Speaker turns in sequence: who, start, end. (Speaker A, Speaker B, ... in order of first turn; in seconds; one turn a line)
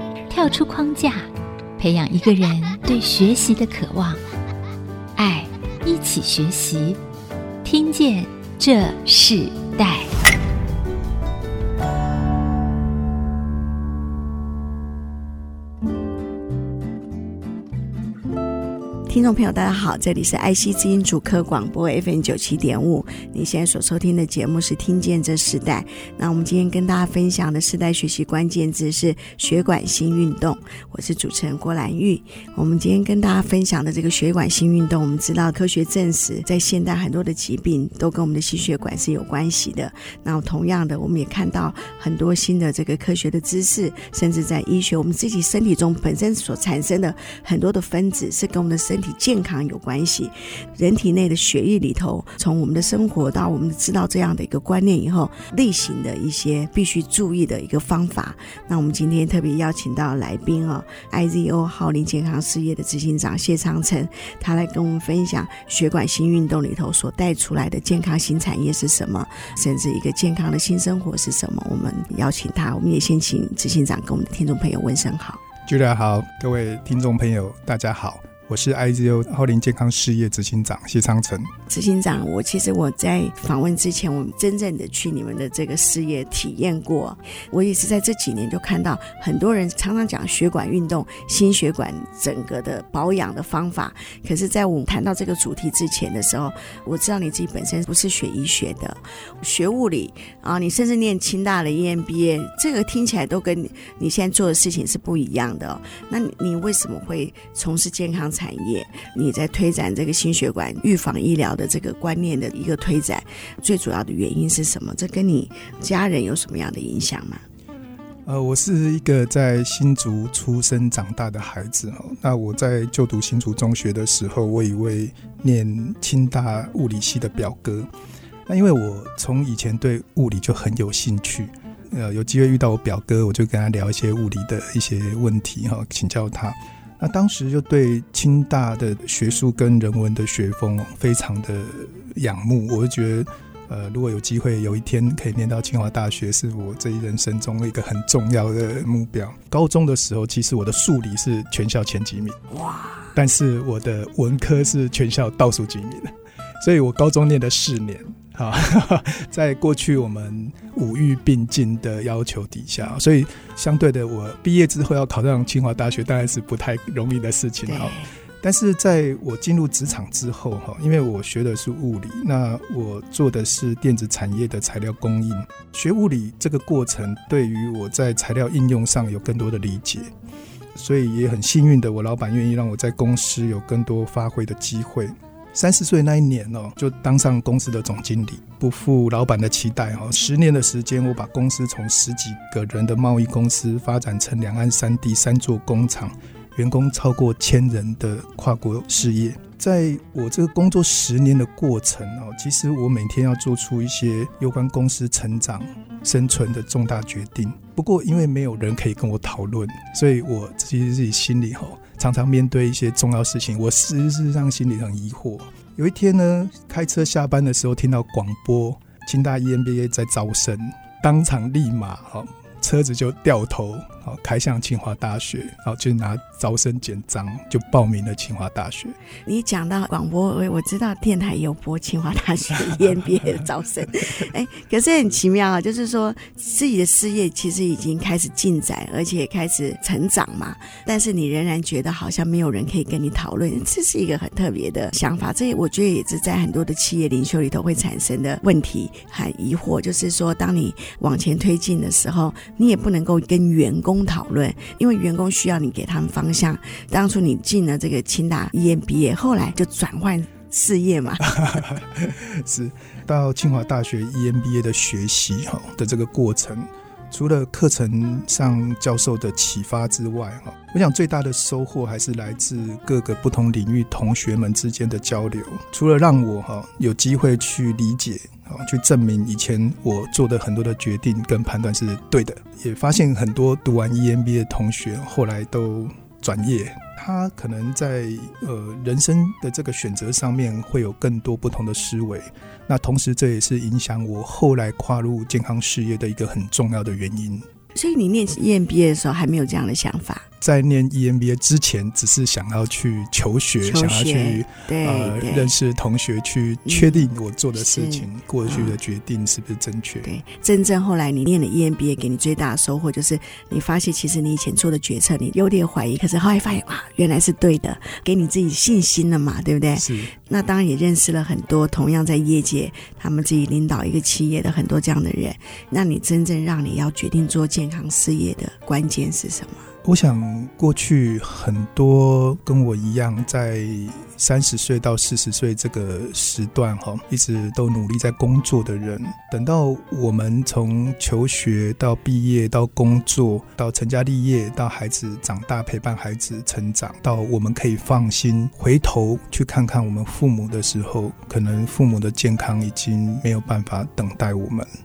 Speaker A: 0.3-4.2
Speaker A: 5.2-7.0
Speaker A: 7.6-10.1
Speaker B: 19.1-75.4
Speaker C: 75.6-81.5
Speaker B: 81.7-117.4
Speaker C: 118.2-127.9
Speaker C: 128.5-152.4
Speaker B: 152.6-153.1
Speaker C: 153.1-180.1
Speaker B: 167.7-168.1
Speaker C: 180.7-229.0
Speaker B: 229.2-261.3
Speaker C: 261.2-297.5
Speaker B: 297.7-300.3
Speaker C: 300.4-310.1
Speaker B: 303.6-305.5
Speaker B: 306.7-308.8
Speaker B: 310.0-329.7
Speaker C: 319.7-320.1
Speaker C: 329.8-354.7